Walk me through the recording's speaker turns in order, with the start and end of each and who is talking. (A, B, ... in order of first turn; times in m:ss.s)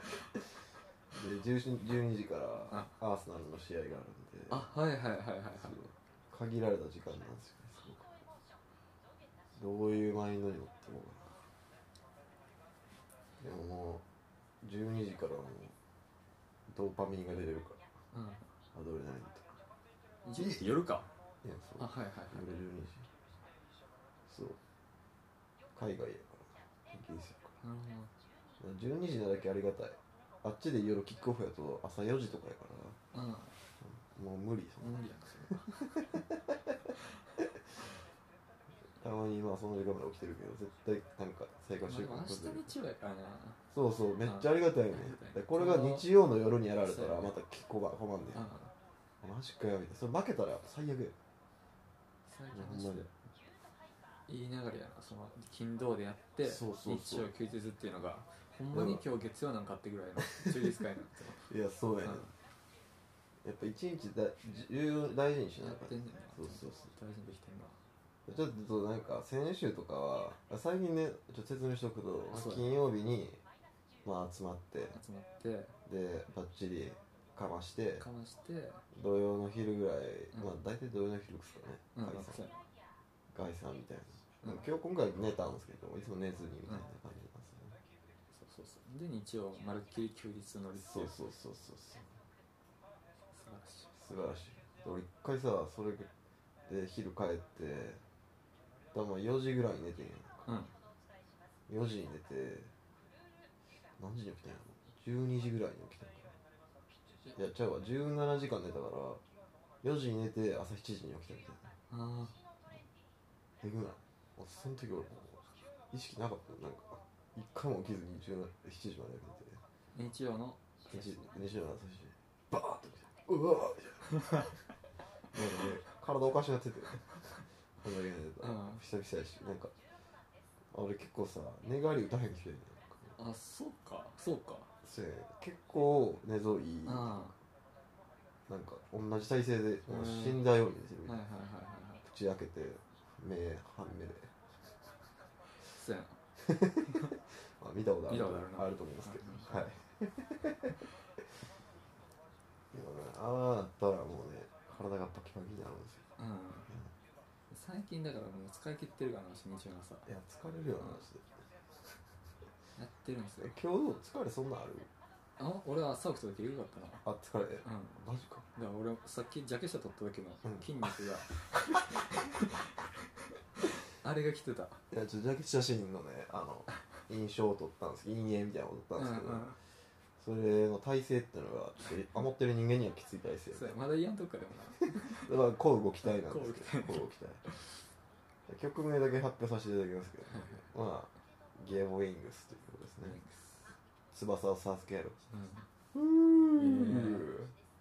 0:01.1-0:04.7 A
0:04.5-0:05.8 B
0:05.6-0:08.1 A
0:09.6-0:11.4 A
0:13.4-0:14.0 A
0:14.6-0:15.7 A
0:16.7-0:17.8 A
0:18.1-0:18.5 B
0:18.7-0:19.6 A
0:20.2-0:21.1 B
0:20.3-0:20.8 A
0:21.4-0:23.1 A
0:21.8-0:22.6 B
0:24.2-0:24.6 A
0:25.7-0:27.6 A
0:27.6-0:28.1 B
0:28.6-0:33.0 A
0:33.1-0:33.6 B
0:33.8-0:37.5 A
0:34.8-0:36.1 B
0:39.0-0:42.7 A
0:41.8-0:43.6 B
0:43.7-0:48.5 A
0:44.2-0:46.1 B
0:46.8-0:47.3 B
0:48.3-0:48.7 B
0:49.2-0:51.2 A
0:52.2-0:53.1 B
0:52.5-0:53.1 A
0:54.3-1:01.5 B
0:56.4-0:57.3 A
0:58.7-0:59.0 A
1:01.5-1:02.3 A
1:02.0-1:02.3 B
1:03.4-1:06.9 A
1:05.6-1:07.8 B
1:08.2-1:13.4 A
1:12.3-1:12.7 B
1:14.0-1:15.0 A
1:14.9-1:15.7 B
1:15.8-1:18.0 A
1:18.0-1:18.8 B
1:18.9-1:22.5 A
1:21.9-1:22.6 B
1:23.3-1:27.8 A
1:24.4-1:24.7 B
1:28.3-1:31.1 B
1:30.8-1:32.2 A
1:33.3-1:34.0 B
1:33.9-1:36.1 A
1:36.7-1:38.0 A
1:38.9-1:40.5 A
1:40.4-1:40.7 B
1:41.7-1:42.7 A
1:44.0-1:46.4 A
1:47.3-1:49.2 A
1:49.8-1:51.7 A
1:51.9-1:52.3 B
1:53.6-1:59.6 A
1:59.9-2:01.1 B
2:00.9-2:04.5 A
2:05.3-2:09.7 A
2:08.4-2:08.8 B
2:10.7-2:13.2 A
2:13.2-2:14.7 B
2:14.8-2:17.4 A
2:16.8-2:17.3 B
2:18.5-2:21.2 A
2:19.9-2:20.4 B
2:21.0-2:22.0 B
2:22.0-2:24.3 A
2:25.6-2:26.2 B
2:26.4-2:30.8 A
2:28.1-2:29.7 B
2:32.7-2:36.0 A
2:36.2-2:36.8 B
2:37.5-2:40.1 B
2:40.0-2:41.5 A
2:42.8-2:43.5 B
2:43.4-2:44.9 A
2:45.4-2:47.0 B
2:47.0-2:48.5 A
2:47.6-2:48.0 B
2:48.5-2:52.6 B
2:54.0-2:54.8 B
2:54.9-2:59.5 A
2:59.0-2:59.6 B
3:00.2-3:03.8 A
3:03.5-3:05.3 B
3:05.0-3:07.4 A
3:06.0-3:07.8 B
3:08.5-3:13.2 A
3:10.3-3:10.6 B
3:13.0-3:13.7 B
3:14.1-3:15.2 A
3:15.3-3:15.7 B
3:15.9-3:17.5 A
3:16.6-3:17.3 B